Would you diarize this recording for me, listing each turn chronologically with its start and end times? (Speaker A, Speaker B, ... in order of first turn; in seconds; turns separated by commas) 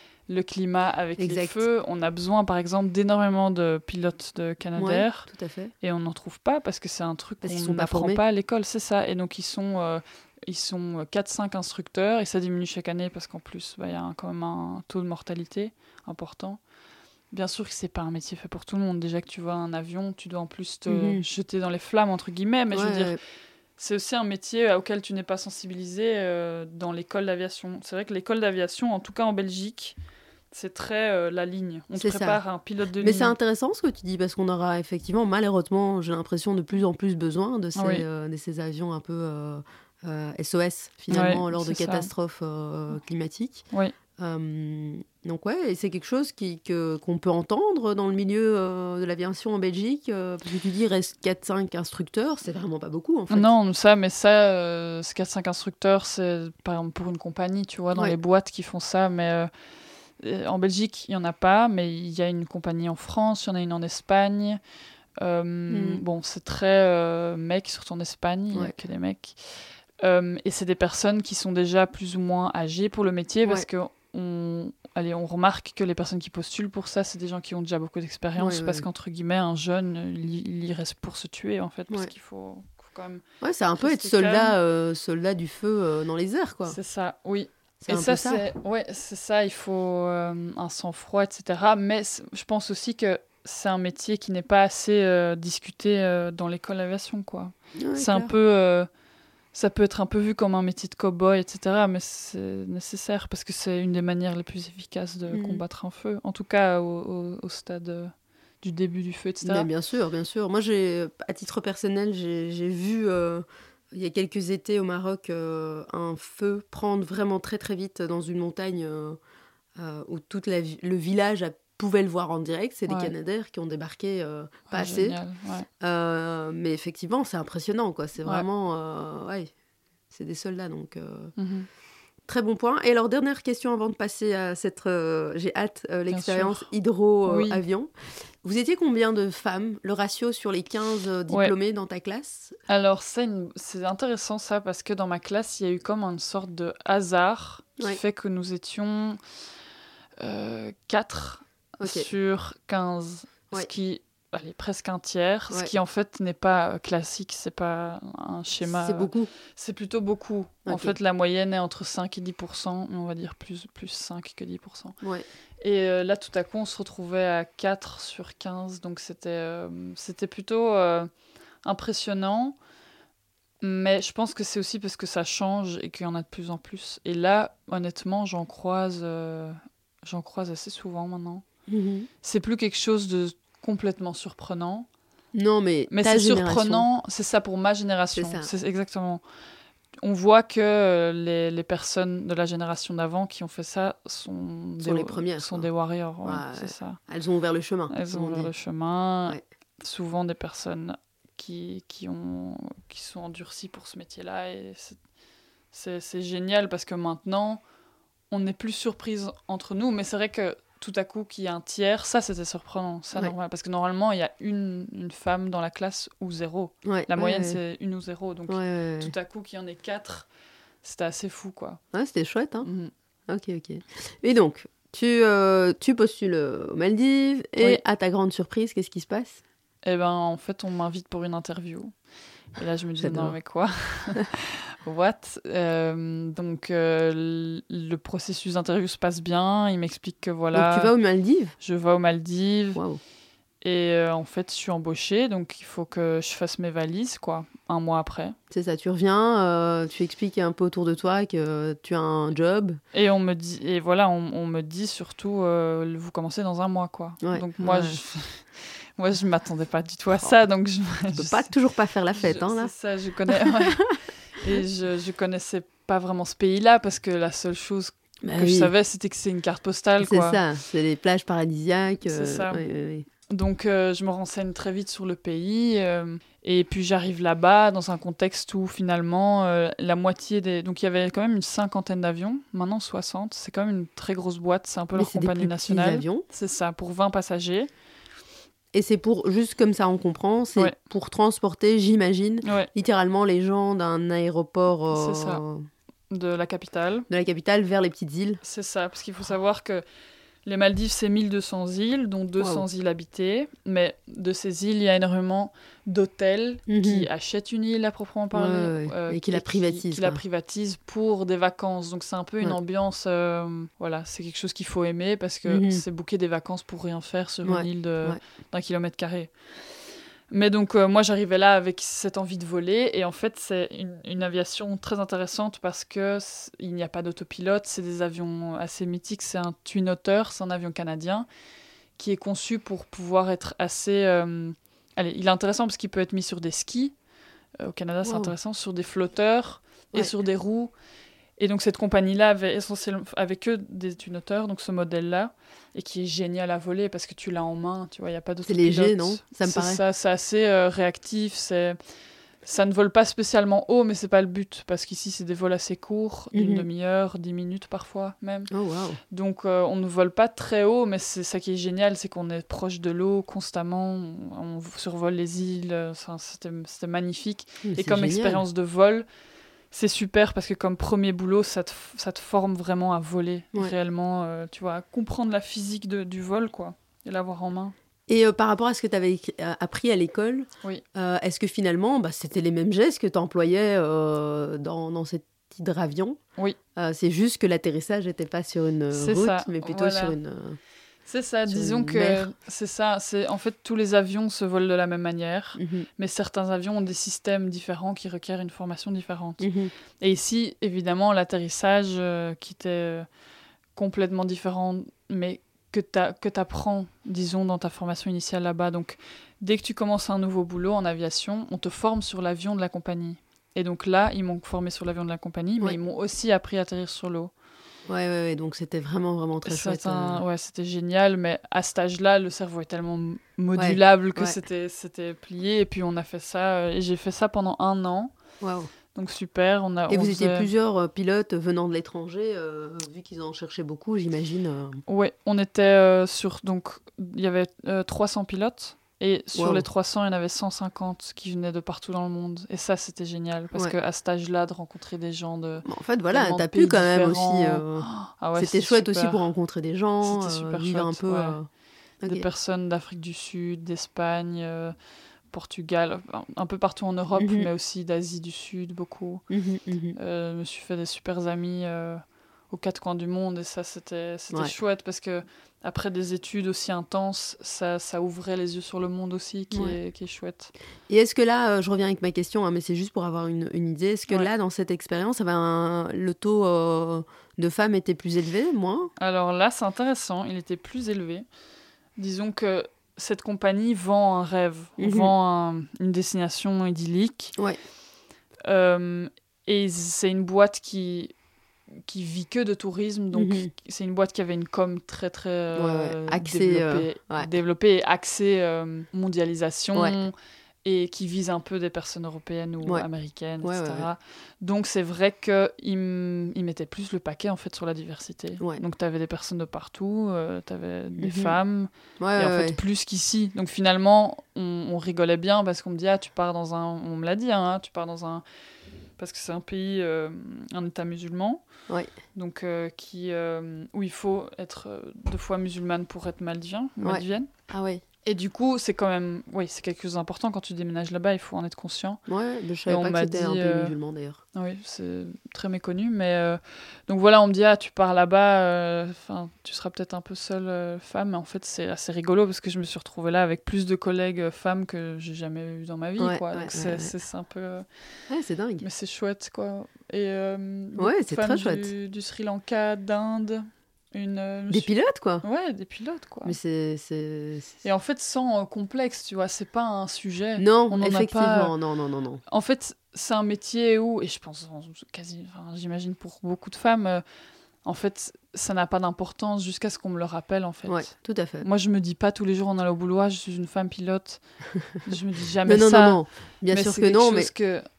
Speaker A: 0.3-5.3, Speaker B: 1.2-1.6, Speaker B: 4.8-5.7, Speaker A: 5.8-16.6, Speaker B: 7.4-8.2, Speaker A: 17.3-23.1, Speaker B: 20.9-21.2, Speaker B: 22.7-23.2, Speaker A: 23.8-29.9, Speaker A: 30.5-33.4, Speaker B: 32.0-32.4, Speaker B: 33.0-43.6, Speaker A: 37.8-38.0, Speaker A: 41.1-42.1, Speaker B: 44.2-53.5, Speaker A: 53.3-59.5, Speaker A: 60.2-64.6, Speaker A: 65.2-69.4, Speaker B: 65.7-66.0, Speaker A: 70.0-83.2, Speaker B: 78.4-78.8, Speaker B: 83.4-86.8, Speaker A: 83.8-84.5, Speaker A: 86.7-98.9, Speaker B: 87.8-88.4, Speaker B: 97.8-98.3, Speaker A: 99.5-109.7, Speaker B: 105.3-105.6, Speaker B: 109.4-119.2, Speaker B: 119.8-125.2, Speaker A: 122.9-123.1, Speaker A: 124.7-125.7, Speaker B: 125.8-129.5, Speaker B: 130.1-131.3, Speaker A: 131.4-131.7, Speaker B: 132.3-137.9, Speaker A: 136.1-136.7, Speaker A: 137.2-137.6, Speaker B: 138.4-142.6, Speaker A: 141.3-141.5, Speaker A: 142.7-149.2, Speaker A: 150.2-165.0, Speaker B: 151.8-152.1, Speaker B: 158.6-159.3, Speaker B: 160.7-160.9, Speaker B: 165.0-165.2, Speaker A: 165.6-171.1, Speaker A: 171.6-172.6, Speaker A: 173.6-181.4, Speaker B: 181.7-182.1, Speaker A: 182.2-184.9, Speaker B: 185.3-186.8, Speaker A: 185.9-189.2, Speaker B: 188.1-188.5, Speaker A: 190.0-197.0, Speaker B: 194.8-195.7, Speaker B: 196.2-198.5, Speaker A: 197.9-205.0, Speaker A: 205.7-207.6, Speaker A: 208.3-220.3, Speaker B: 216.8-217.6, Speaker B: 218.5-219.1, Speaker A: 220.8-221.8, Speaker B: 221.9-222.7, Speaker A: 222.6-222.9, Speaker B: 223.3-229.4, Speaker A: 229.8-231.9, Speaker A: 232.5-240.9, Speaker B: 233.0-233.3, Speaker B: 240.5-241.5, Speaker A: 241.6-242.8, Speaker A: 243.6-248.3, Speaker B: 248.5-252.8, Speaker A: 252.9-261.5, Speaker B: 257.2-258.0, Speaker B: 261.1-262.7, Speaker A: 262.1-270.4, Speaker B: 263.3-263.9, Speaker B: 268.2-268.7, Speaker B: 270.0-273.1, Speaker A: 272.1-272.6, Speaker A: 273.3-287.7, Speaker B: 284.9-286.2, Speaker B: 288.7-295.7, Speaker A: 292.4-292.7, Speaker A: 294.9-295.4, Speaker A: 296.1-297.1, Speaker B: 297.1-298.4, Speaker A: 298.4-299.8, Speaker A: 300.4-319.3, Speaker B: 302.4-302.6, Speaker B: 306.7-307.1, Speaker B: 308.3-310.2, Speaker B: 315.4-315.8, Speaker B: 317.4-318.2, Speaker A: 320.3-331.3, Speaker A: 332.0-336.9, Speaker A: 337.6-340.7, Speaker B: 338.0-338.3, Speaker A: 341.4-351.8, Speaker B: 348.4-349.8, Speaker A: 352.4-358.5, Speaker B: 356.3-356.6, Speaker B: 358.5-359.0, Speaker A: 359.1-369.1, Speaker B: 367.6-368.4, Speaker A: 369.7-377.7, Speaker B: 378.1-386.2, Speaker B: 386.8-390.6, Speaker A: 388.9-390.2, Speaker A: 391.1-399.4, Speaker B: 391.5-392.3, Speaker B: 395.6-395.9, Speaker B: 399.4-399.7, Speaker A: 400.0-403.1, Speaker A: 403.8-417.3, Speaker B: 417.9-420.2, Speaker A: 419.4-428.1, Speaker B: 423.6-424.4, Speaker B: 428.4-428.7, Speaker A: 428.9-430.5, Speaker B: 429.9-434.8, Speaker A: 434.9-449.2, Speaker B: 439.3-439.6, Speaker B: 445.6-451.5, Speaker A: 450.0-451.4, Speaker A: 452.1-454.7, Speaker A: 455.3-459.2, Speaker B: 457.2-457.5, Speaker B: 459.3-459.9, Speaker A: 459.9-470.5, Speaker B: 469.5-469.8, Speaker B: 470.9-478.9, Speaker A: 479.0-481.2, Speaker A: 482.0-487.3, Speaker B: 484.8-485.1, Speaker A: 488.4-491.1, Speaker A: 491.8-500.1, Speaker B: 493.1-493.5, Speaker B: 495.5-497.3, Speaker A: 500.6-518.2, Speaker B: 503.4-503.9, Speaker B: 511.0-511.4, Speaker B: 512.0-512.6, Speaker A: 519.0-521.4, Speaker A: 522.1-527.3, Speaker B: 526.8-527.8, Speaker A: 528.0-532.0, Speaker B: 532.1-534.2, Speaker A: 532.6-533.7, Speaker A: 534.3-547.6, Speaker B: 546.0-546.9, Speaker B: 548.1-548.6, Speaker A: 548.6-554.7, Speaker B: 550.8-551.7, Speaker B: 554.5-555.2, Speaker A: 555.2-556.4, Speaker B: 556.2-557.5, Speaker A: 557.6-561.5, Speaker B: 560.4-562.2, Speaker A: 562.3-567.0, Speaker A: 567.6-574.2, Speaker B: 570.7-571.5, Speaker A: 574.7-577.6, Speaker B: 575.5-577.3